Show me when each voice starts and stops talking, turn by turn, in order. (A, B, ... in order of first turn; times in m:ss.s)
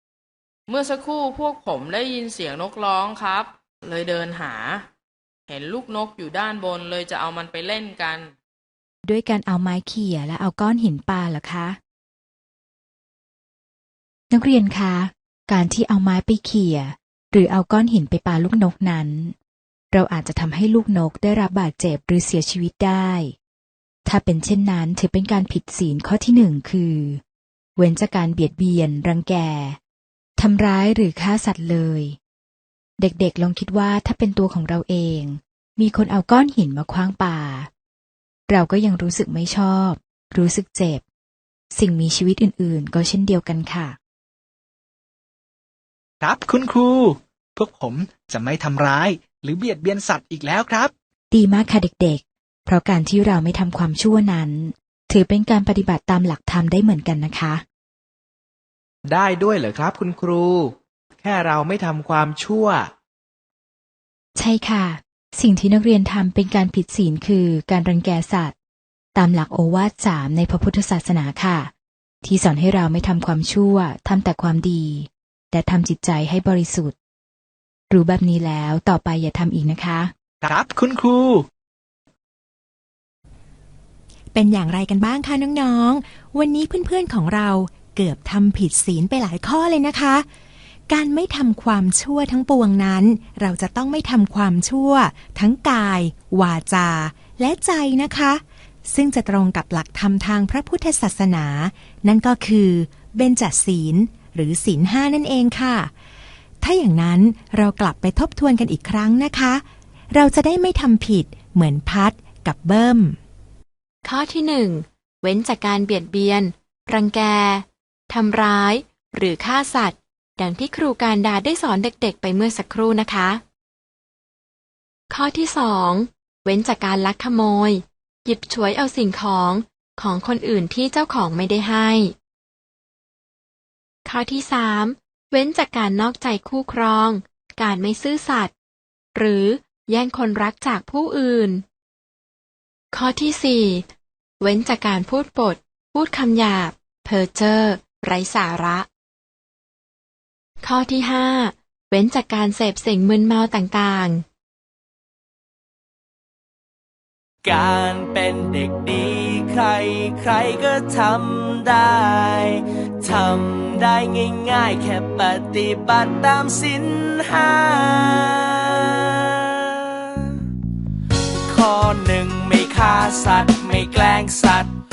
0:00.7-0:04.8 A
0:05.5-0:08.3 A
0:09.0-0:11.8 B
0:14.3-0:19.3 B
0:19.9-0:23.3 B
0:24.0-0:27.2 B
0:27.8-0:29.8 B
0:30.4-0:32.2 B
0:33.0-0:37.7 B
0:38.5-0:41.0 B
0:41.7-0:44.0 B
0:46.2-0:50.9 C
0:51.3-0:57.6 B
0:59.0-1:02.9 D
1:04.4-1:08.5 B
1:09.1-1:11.7 B
1:12.2-1:17.0 B
1:17.9-1:20.1 B
1:20.4-1:21.4 C
1:24.3-1:30.2 E
1:30.9-1:45.9 E
1:46.6-1:53.2 E
1:54.0-2:03.4 F
2:05.1-2:12.1 F
2:14.0-2:18.5 F
2:19.1-2:21.6 F
2:22.9-2:23.8 F
2:24.4-2:28.9 F
2:30.6-2:34.2 F
2:37.4-2:50.3 G
2:51.5-2:54.7 G